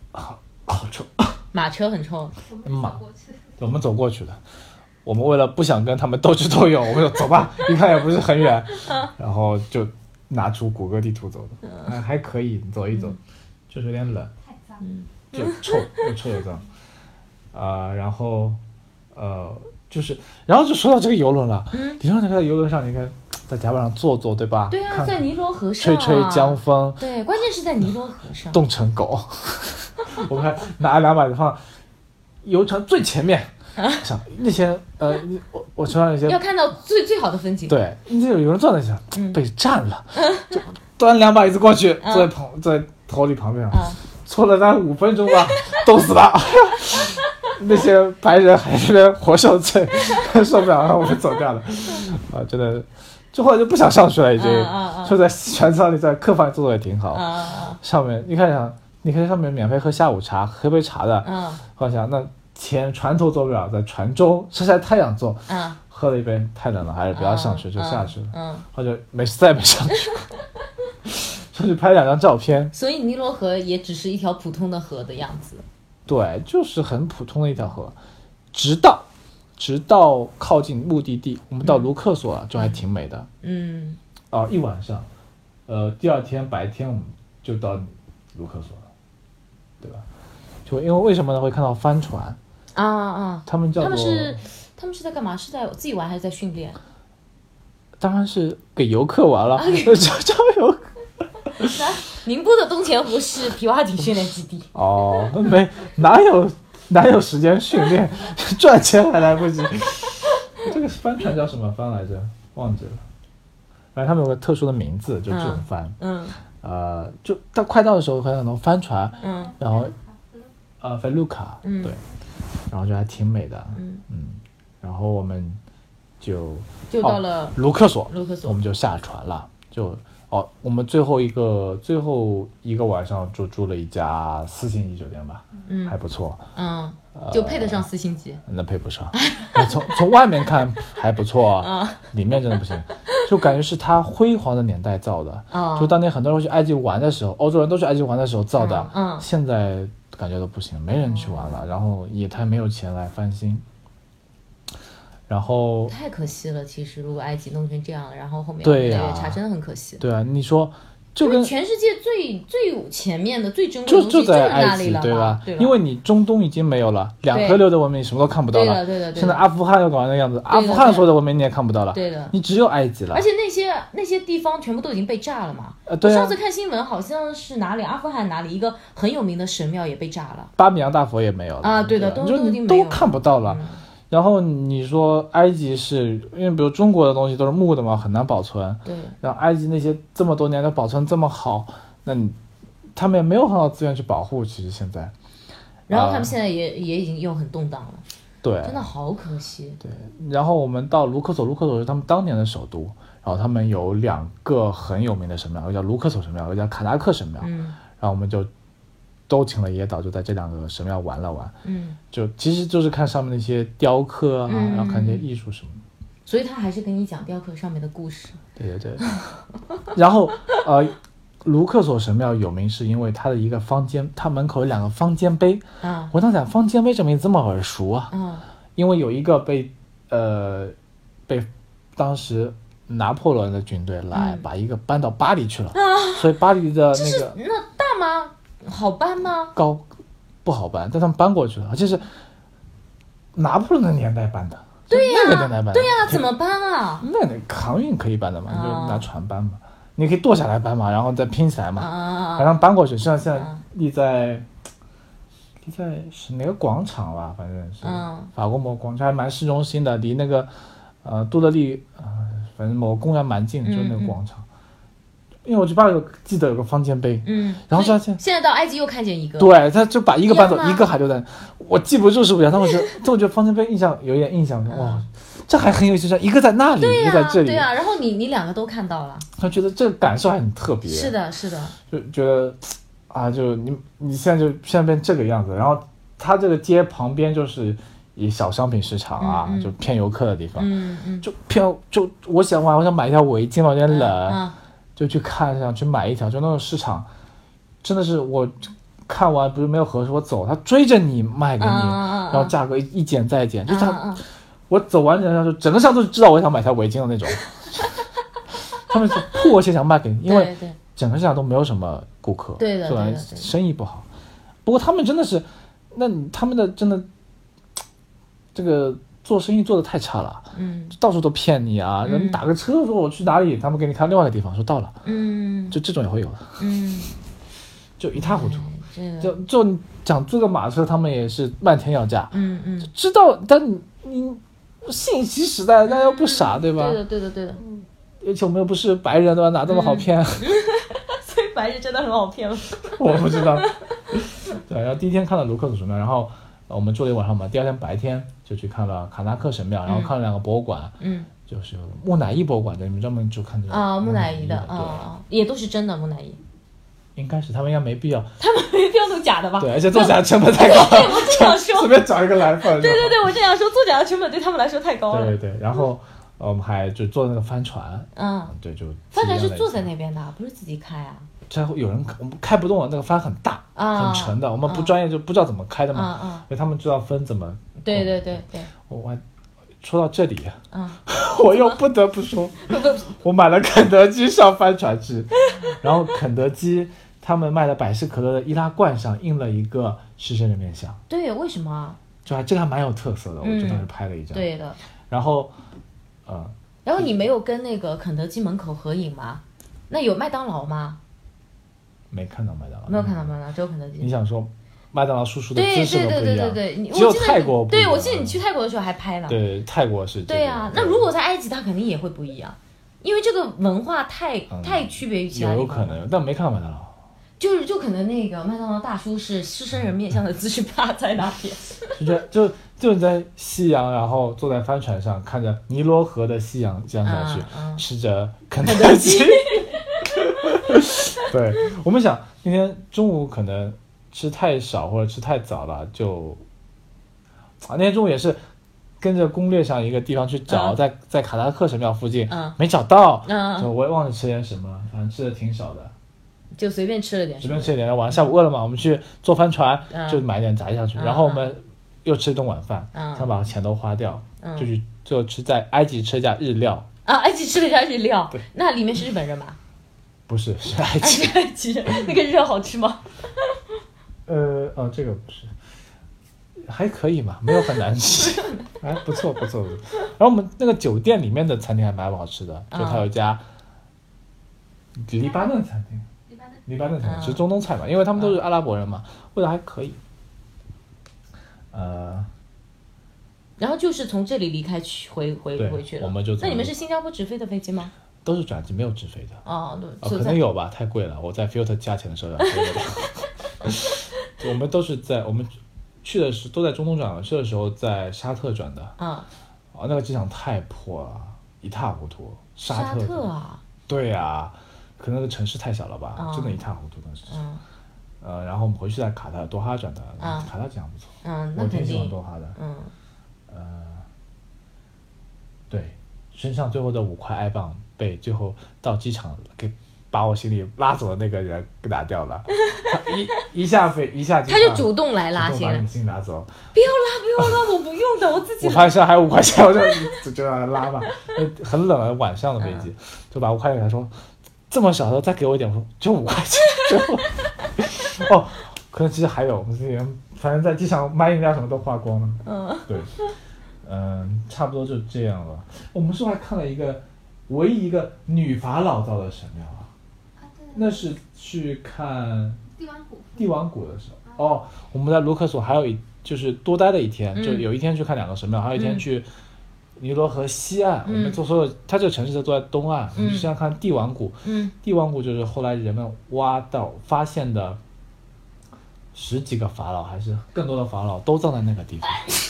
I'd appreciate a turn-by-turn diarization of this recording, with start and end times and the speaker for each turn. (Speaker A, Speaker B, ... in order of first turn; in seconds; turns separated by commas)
Speaker A: 0.1-1.4, Speaker B: 1.5-2.4, Speaker C: 2.5-3.8, Speaker A: 2.6-3.0, Speaker A: 3.6-4.4, Speaker A: 5.0-13.2, Speaker A: 13.7-14.3, Speaker C: 14.4-14.8, Speaker B: 14.8-16.1, Speaker A: 15.3-16.6, Speaker A: 17.5-18.6, Speaker A: 19.1-25.2, Speaker B: 21.7-22.0, Speaker B: 24.7-28.6, Speaker A: 25.8-27.1, Speaker A: 28.5-31.6, Speaker A: 32.4-36.4, Speaker B: 36.3-37.8, Speaker A: 37.7-70.2, Speaker B: 39.1-39.4, Speaker B: 40.2-40.6, Speaker B: 42.0-42.3, Speaker B: 43.7-44.0, Speaker B: 54.4-55.2, Speaker B: 57.1-57.8, Speaker B: 61.2-61.6, Speaker B: 65.5-65.8, Speaker B: 67.1-68.7, Speaker A: 71.1-72.7, Speaker B: 72.7-75.6, Speaker A: 76.1-78.0, Speaker A: 78.5-79.1, Speaker A: 79.6-83.3, Speaker B: 81.6-81.9, Speaker B: 82.6-82.8, Speaker B: 83.4-84.0, Speaker A: 84.3-85.1, Speaker A: 85.7-88.9, Speaker A: 89.8-90.1, Speaker A: 90.6-92.4, Speaker B: 92.7-96.8, Speaker A: 93.5-94.4, Speaker A: 98.0-100.9, Speaker B: 99.5-100.0, Speaker A: 101.5-101.8, Speaker B: 101.6-104.7, Speaker A: 104.7-113.0, Speaker A: 114.0-116.0, Speaker B: 115.3-116.4, Speaker A: 116.6-119.9, Speaker C: 119.2-120.5, Speaker B: 119.2-119.5, Speaker A: 120.8-122.0, Speaker B: 121.6-122.0, Speaker A: 122.7-125.6, Speaker B: 123.8-124.0, Speaker A: 126.2-136.4, Speaker B: 126.9-128.6, Speaker B: 135.7-136.0, Speaker B: 136.6-138.4, Speaker A: 137.1-137.9, Speaker A: 138.5-153.6, Speaker B: 139.1-140.1, Speaker B: 141.6-142.6, Speaker B: 145.5-146.0, Speaker B: 148.6-149.3, Speaker B: 150.9-151.7, Speaker A: 155.3-155.9, Speaker B: 155.9-160.0, Speaker A: 158.6-159.4, Speaker A: 160.0-161.5, Speaker B: 161.2-165.8, Speaker A: 163.9-173.3, Speaker B: 167.3-167.6, Speaker B: 168.5-169.4, Speaker B: 170.5-171.1, Speaker B: 171.9-172.3, Speaker B: 173.1-180.5, Speaker A: 175.9-176.4, Speaker A: 180.6-192.4, Speaker B: 181.6-183.8, Speaker B: 188.8-189.2, Speaker A: 192.9-195.1, Speaker B: 195.9-198.0, Speaker A: 195.9-196.3, Speaker A: 198.4-198.9, Speaker B: 198.6-199.8, Speaker A: 199.8-208.5, Speaker B: 207.4-207.8, Speaker A: 209.3-211.6, Speaker B: 211.6-212.0, Speaker A: 212.1-215.8, Speaker B: 214.5-215.2, Speaker B: 216.3-218.4, Speaker A: 218.6-219.4, Speaker A: 219.9-228.1, Speaker B: 225.8-226.1, Speaker B: 228.1-228.4, Speaker A: 228.8-230.8, Speaker A: 231.3-237.4, Speaker B: 234.1-234.4, Speaker B: 235.8-236.3, Speaker B: 236.9-239.6, Speaker A: 239.6-239.8, Speaker A: 240.4-242.1, Speaker A: 243.3-246.3, Speaker B: 244.9-247.1, Speaker A: 247.0-254.5, Speaker B: 248.5-249.1, Speaker B: 251.8-252.6, Speaker B: 253.3-253.6, Speaker A: 255.6-260.5, Speaker B: 257.8-258.3, Speaker A: 261.0-264.4, Speaker B: 263.6-264.2, Speaker A: 265.4-268.2, Speaker B: 267.2-269.6, Speaker A: 269.4-277.7, Speaker B: 270.3-270.9, Speaker B: 274.7-275.0, Speaker B: 276.8-279.3, Speaker A: 279.4-281.1, Speaker B: 280.9-281.8, Speaker A: 281.9-290.7, Speaker B: 289.2-289.7, Speaker B: 290.6-291.3, Speaker A: 291.2-294.4, Speaker B: 293.9-294.6, Speaker A: 295.0-297.1, Speaker A: 297.8-304.2, Speaker B: 301.6-302.5, Speaker B: 303.7-304.2, Speaker A: 304.7-308.0, Speaker A: 308.8-314.1, Speaker B: 310.2-310.8, Speaker B: 312.6-313.5, Speaker A: 314.6-317.1, Speaker A: 318.5-325.0, Speaker B: 320.5-321.0, Speaker B: 322.1-322.4, Speaker B: 325.0-325.8, Speaker A: 325.7-326.6, Speaker B: 326.6-327.1, Speaker A: 328.0-328.7, Speaker B: 328.1-329.4, Speaker A: 329.2-337.0, Speaker B: 332.3-332.9, Speaker B: 335.9-337.6, Speaker A: 338.2-340.6, Speaker B: 339.7-344.2, Speaker A: 342.9-355.1, Speaker B: 349.9-350.1, Speaker B: 351.0-351.3, Speaker B: 353.7-356.4, Speaker A: 357.2-358.4, Speaker B: 358.4-365.4, Speaker A: 359.6-363.2, Speaker A: 365.1-369.9, Speaker B: 368.1-368.6, Speaker B: 369.1-371.3, Speaker A: 371.5-379.2, Speaker B: 373.8-374.9, Speaker B: 375.9-376.5, Speaker B: 377.8-378.7, Speaker A: 379.8-391.0, Speaker B: 380.7-381.8, Speaker B: 382.7-383.1, Speaker B: 391.1-392.0, Speaker A: 392.2-394.5, Speaker B: 393.4-394.8, Speaker A: 395.1-395.6, Speaker A: 396.3-397.1, Speaker B: 396.9-401.0, Speaker A: 402.1-403.3, Speaker B: 402.9-404.1, Speaker A: 404.0-408.4, Speaker B: 405.6-409.4, Speaker A: 409.3-411.1, Speaker B: 410.3-416.0, Speaker A: 414.5-417.0, Speaker B: 417.4-422.0, Speaker A: 421.9-436.4, Speaker B: 427.0-427.9, Speaker B: 428.6-430.9, Speaker A: 437.6-438.4, Speaker A: 439.0-445.9, Speaker B: 440.5-440.8, Speaker B: 442.3-442.6, Speaker B: 443.2-443.7, Speaker B: 446.5-447.7, Speaker A: 447.4-456.9, Speaker B: 449.9-450.2, Speaker B: 450.9-451.5, Speaker B: 452.9-453.3, Speaker B: 454.4-454.7, Speaker B: 457.1-459.6, Speaker A: 460.3-461.4, Speaker B: 461.0-463.6, Speaker A: 464.3-465.5, Speaker A: 466.6-473.4, Speaker B: 472.7-473.1, Speaker A: 475.0-476.1, Speaker C: 475.2-475.6, Speaker C: 476.3-476.6, Speaker A: 476.7-480.0, Speaker B: 477.0-477.4, Speaker A: 481.7-482.3, Speaker B: 483.6-487.9, Speaker A: 485.6-486.8, Speaker A: 488.2-489.4, Speaker B: 489.4-490.4, Speaker A: 490.0-498.9, Speaker B: 492.4-492.8, Speaker B: 499.0-499.3, Speaker A: 499.7-503.3, Speaker B: 502.7-503.6, Speaker A: 503.9-507.4, Speaker B: 506.2-506.6, Speaker B: 507.3-507.6, Speaker A: 508.2-512.6, Speaker B: 510.2-510.5, Speaker B: 511.2-512.9, Speaker A: 513.5-514.0, Speaker A: 515.7-526.6, Speaker B: 524.5-525.9, Speaker B: 526.7-529.0, Speaker A: 528.6-534.1, Speaker B: 532.6-532.9, Speaker A: 534.7-543.1, Speaker B: 542.4-543.0, Speaker A: 543.8-549.9, Speaker C: 550.4-551.1, Speaker A: 550.7-552.6, Speaker C: 552.8-553.6, Speaker A: 553.4-559.3, Speaker B: 557.4-557.7, Speaker B: 558.8-559.1, Speaker A: 560.0-567.8, Speaker B: 561.0-561.4, Speaker B: 563.1-563.5, Speaker B: 564.4-564.7, Speaker A: 569.1-572.3